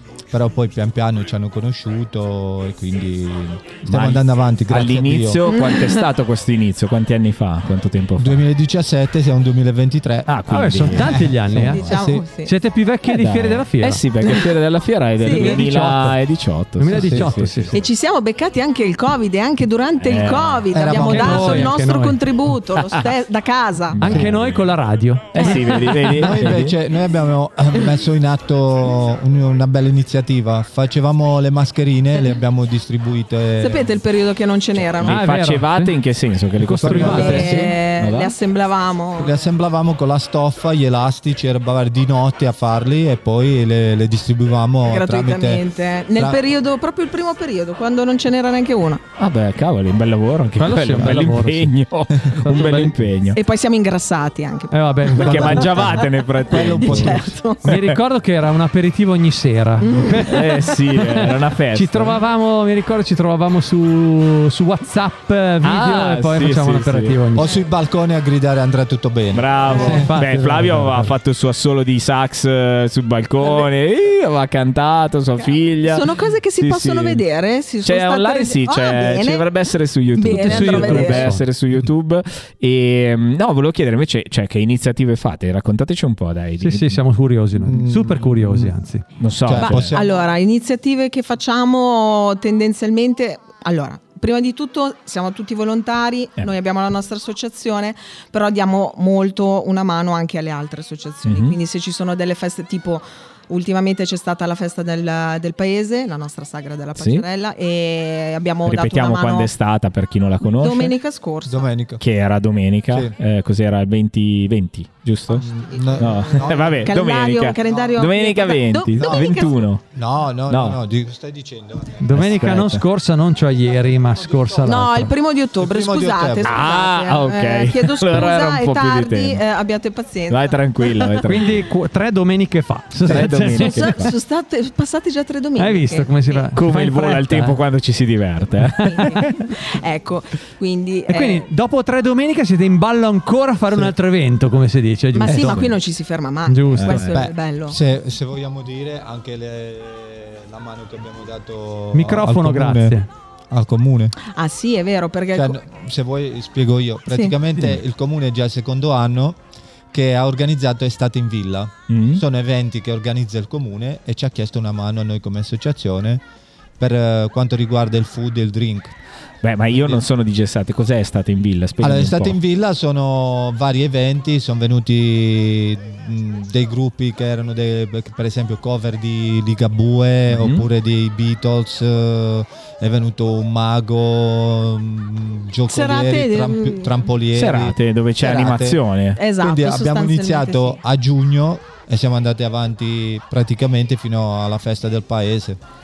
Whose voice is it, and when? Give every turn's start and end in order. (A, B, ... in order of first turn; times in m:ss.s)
0:00.3-0:05.4 A
0:03.8-0:08.4 B
0:05.5-0:05.9 C
0:08.2-0:12.2 A
0:10.3-0:11.3 B
0:10.5-0:11.8 D
0:11.7-0:12.5 C
0:12.4-0:14.0 D
0:13.1-0:17.8 B
0:14.2-0:14.5 C
0:15.2-0:15.6 C
0:15.3-0:16.2 D
0:16.8-0:17.8 D
0:16.9-0:17.3 A
0:17.7-0:24.0 C
0:20.0-0:21.5 B
0:20.7-0:21.7 A
0:21.0-0:22.2 D
0:22.7-0:23.1 B
0:23.9-0:24.7 B
0:24.0-0:26.1 D
0:25.3-0:26.7 B
0:25.4-0:25.8 C
0:26.1-0:33.9 A
0:33.6-0:35.2 C
0:34.8-0:38.3 B
0:35.0-0:35.9 D
0:36.6-0:37.7 D
0:36.8-0:37.5 A
0:37.0-0:39.4 C
0:39.2-0:45.6 A
0:44.9-0:49.0 C
0:49.2-0:53.4 B
0:50.6-0:51.7 D
0:52.4-0:53.0 D
0:53.3-0:57.6 C
0:54.7-0:55.8 D
0:55.2-0:58.0 B
0:56.5-0:57.3 A
0:57.6-1:07.4 D
0:59.8-1:00.3 C
1:00.3-1:02.2 B
1:05.6-1:07.2 B
1:07.3-1:10.1 A
1:09.3-1:17.2 B
1:09.7-1:10.0 C
1:09.8-1:11.1 D
1:13.4-1:13.7 C
1:15.4-1:19.5 C
1:17.8-1:27.0 B
1:20.2-1:21.3 C
1:20.4-1:21.4 D
1:26.6-1:29.0 D
1:27.6-1:28.7 A
1:29.2-1:30.0 B
1:29.4-1:30.0 A
1:29.6-1:49.5 C
1:41.2-1:41.6 B
1:47.0-1:47.2 B
1:48.6-1:50.9 B
1:50.5-1:51.6 C
1:51.5-1:52.0 A
1:52.0-1:55.5 B
1:52.9-1:53.1 A
1:55.3-1:56.9 A
1:55.6-1:59.5 C
1:56.0-1:59.8 B
1:59.0-1:59.3 A
1:59.9-2:02.2 A
2:00.5-2:00.8 B
2:02.0-2:05.1 D
2:02.1-2:02.8 B
2:03.7-2:04.9 A
2:04.6-2:11.2 C
2:05.5-2:06.6 A
2:06.4-2:09.4 B
2:10.3-2:11.7 B
2:11.3-2:14.1 D
2:13.0-2:14.1 B
2:13.3-2:16.5 C
2:15.6-2:17.6 D
2:16.6-2:19.4 B
2:18.6-2:19.2 D
2:18.8-2:21.5 C
2:21.1-2:25.7 D
2:25.1-2:27.8 C
2:26.5-2:27.0 D
2:26.7-2:27.2 B
2:26.9-2:34.1 A
2:31.9-2:33.1 D
2:34.2-2:35.6 C
2:35.3-2:39.4 A
2:37.1-2:37.3 C
2:39.9-2:46.2 A
2:41.9-2:42.2 B
2:46.8-2:48.9 A
2:49.4-2:52.4 B
2:49.7-2:50.0 A
2:51.8-3:08.8 A
3:00.3-3:00.6 B
3:05.7-3:07.0 C
3:07.3-3:09.2 B
3:09.2-3:10.8 C
3:09.4-3:15.6 A